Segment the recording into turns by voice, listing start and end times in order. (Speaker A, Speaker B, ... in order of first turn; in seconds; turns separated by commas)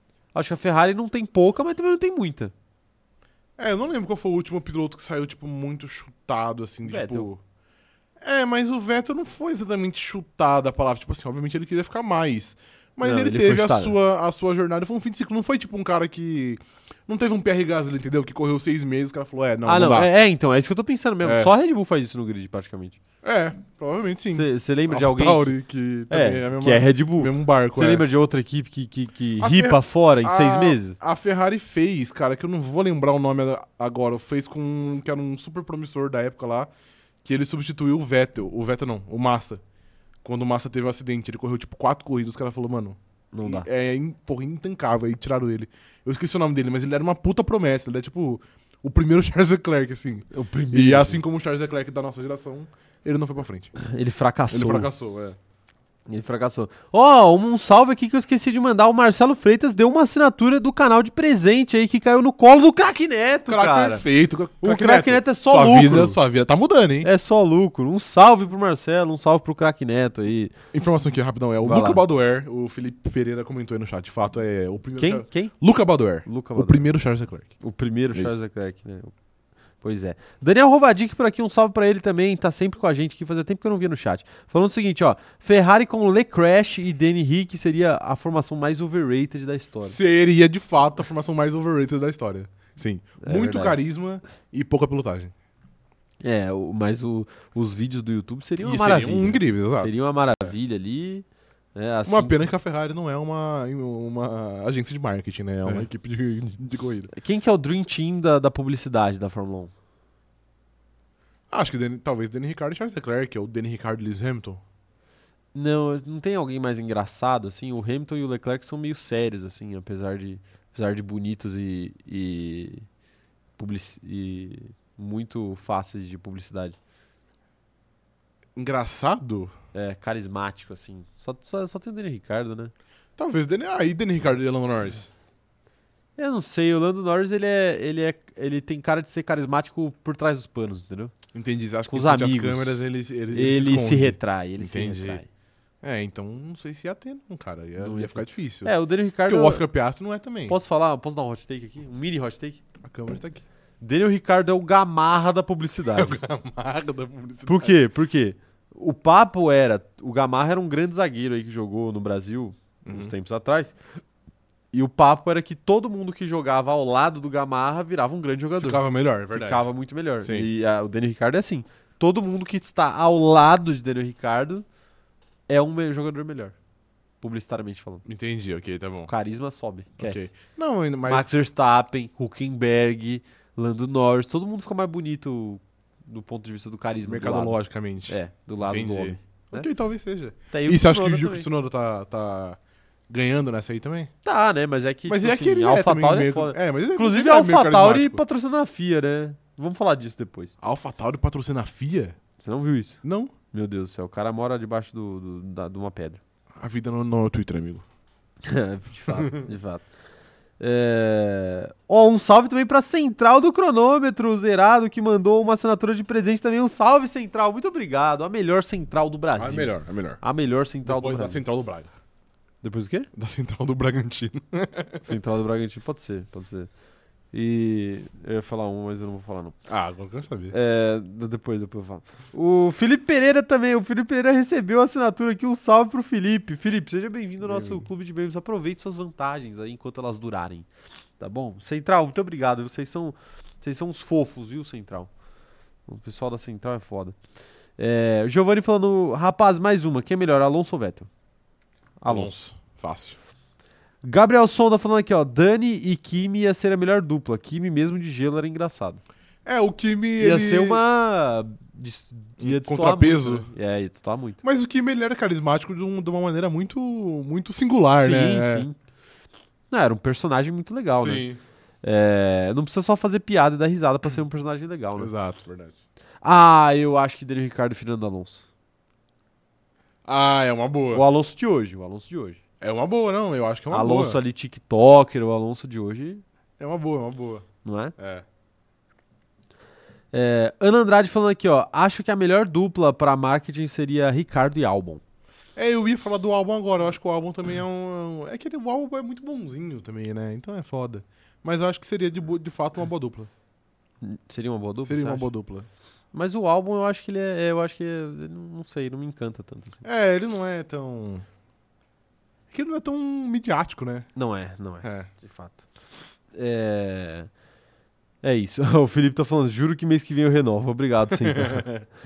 Speaker A: 0.3-2.5, Speaker B: 3.6-7.4, Speaker A: 6.9-7.3, Speaker B: 8.2-20.1, Speaker A: 13.0-14.0, Speaker A: 19.6-23.0, Speaker B: 21.2-21.5, Speaker B: 23.2-28.1, Speaker A: 24.3-25.6, Speaker A: 26.1-31.0, Speaker B: 29.4-36.7, Speaker B: 37.2-39.6, Speaker B: 40.2-53.8, Speaker A: 43.3-43.7, Speaker A: 50.3-51.2, Speaker A: 53.8-54.9, Speaker B: 54.5-55.4, Speaker A: 56.1-64.0, Speaker B: 63.5-67.1, Speaker A: 64.6-66.2, Speaker A: 67.0-70.5, Speaker B: 70.7-77.5, Speaker A: 71.6-72.0, Speaker A: 75.0-75.5, Speaker A: 76.2-76.8, Speaker A: 77.6-79.1, Speaker A: 79.8-90.0, Speaker B: 89.8-95.3, Speaker A: 93.2-93.8, Speaker A: 96.2-102.5, Speaker B: 98.6-100.5, Speaker B: 102.1-107.1, Speaker A: 107.1-109.7, Speaker B: 111.5-114.6, Speaker A: 115.5-122.9, Speaker A: 123.6-126.8, Speaker B: 128.6-129.5, Speaker A: 129.7-132.7, Speaker B: 133.2-135.1, Speaker A: 136.2-141.1, Speaker B: 141.3-145.2, Speaker A: 141.9-145.3, Speaker B: 145.8-148.7, Speaker A: 147.8-149.7, Speaker B: 149.3-150.6, Speaker A: 150.5-152.6, Speaker B: 152.8-153.4, Speaker A: 153.8-156.2, Speaker B: 155.9-157.8, Speaker A: 157.4-163.8, Speaker B: 162.8-163.1, Speaker A: 164.7-174.7, Speaker B: 168.6-169.7, Speaker B: 170.2-170.5, Speaker A: 175.5-176.6, Speaker A: 177.2-178.1, Speaker B: 178.1-179.1, Speaker A: 179.1-180.3, Speaker B: 180.0-181.3, Speaker A: 181.1-189.7, Speaker B: 187.1-194.1, Speaker A: 190.5-191.5, Speaker A: 194.2-200.6, Speaker B: 195.1-198.2, Speaker B: 200.6-202.2, Speaker A: 202.4-206.2, Speaker B: 203.0-203.3, Speaker B: 206.6-207.8, Speaker A: 208.4-209.8, Speaker B: 209.1-209.5, Speaker A: 210.6-221.4, Speaker B: 219.4-220.2, Speaker B: 220.8-221.9, Speaker A: 222.6-223.1, Speaker B: 223.2-225.2, Speaker A: 225.0-226.7, Speaker A: 227.3-229.6, Speaker B: 229.7-230.6, Speaker A: 230.5-240.7, Speaker B: 237.4-237.9, Speaker A: 241.2-245.1, Speaker A: 245.9-247.2, Speaker A: 247.8-251.1, Speaker A: 252.0-252.3, Speaker B: 252.1-253.2, Speaker A: 254.0-259.0, Speaker B: 259.4-260.8, Speaker A: 260.2-264.4, Speaker B: 262.4-263.5, Speaker B: 264.4-268.7, Speaker A: 268.0-268.8, Speaker A: 269.7-271.3, Speaker B: 271.0-271.4, Speaker A: 271.8-275.1, Speaker B: 275.0-275.8, Speaker A: 276.2-278.5, Speaker B: 280.1-281.1, Speaker A: 280.9-282.4, Speaker B: 282.6-284.2, Speaker A: 283.7-286.2, Speaker B: 286.6-287.4, Speaker A: 287.6-287.9, Speaker B: 288.0-288.2, Speaker A: 290.1-295.0, Speaker B: 295.6-303.3, Speaker A: 304.0-305.3, Speaker B: 304.9-305.7, Speaker A: 306.1-309.8, Speaker B: 309.8-311.2, Speaker B: 312.5-314.1, Speaker A: 314.1-315.6, Speaker B: 314.8-315.1, Speaker A: 316.3-317.3, Speaker A: 318.2-321.7, Speaker B: 321.2-321.9